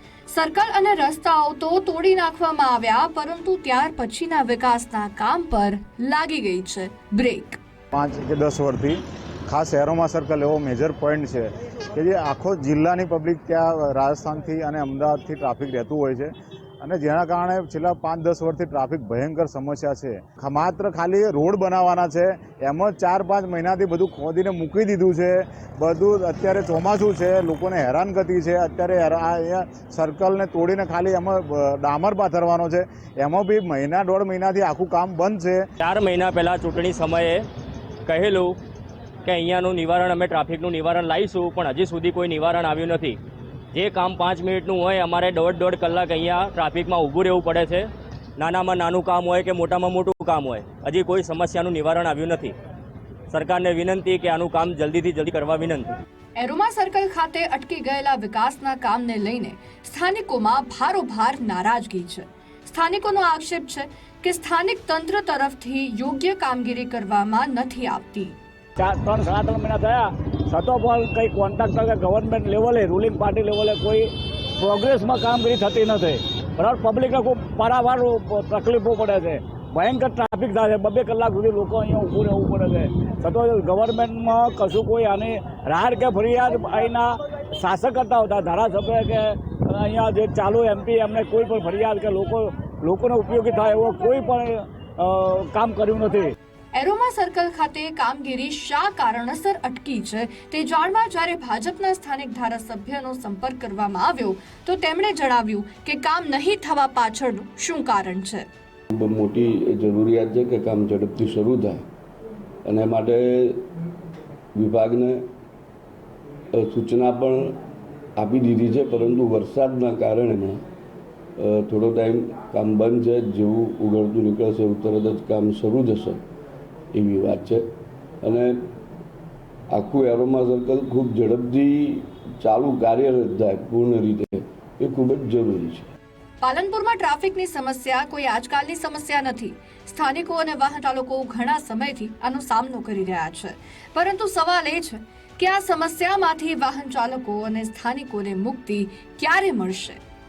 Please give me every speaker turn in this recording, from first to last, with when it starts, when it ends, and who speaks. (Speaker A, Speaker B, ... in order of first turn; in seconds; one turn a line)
Speaker A: 0.3-7.6
Speaker B: 7.9-35.6
Speaker C: 35.8-37.4
Speaker C: 38.0-38.6
Speaker C: 39.2-43.2
Speaker C: 43.7-52.5
Speaker C: 53.3-55.9
Speaker A: 56.4-68.3
Speaker D: 68.8-96.3
Speaker A: 96.7-108.5
Speaker E: 108.9-111.8
Speaker E: 112.6-113.7
Speaker E: 114.5-115.2
Speaker E: 116.5-117.6
Speaker E: 118.2-120.6
Speaker E: 121.4-126.2
Speaker E: 126.9-127.6
Speaker E: 128.2-128.7
Speaker E: 129.7-135.9
Speaker A: 136.4-150.0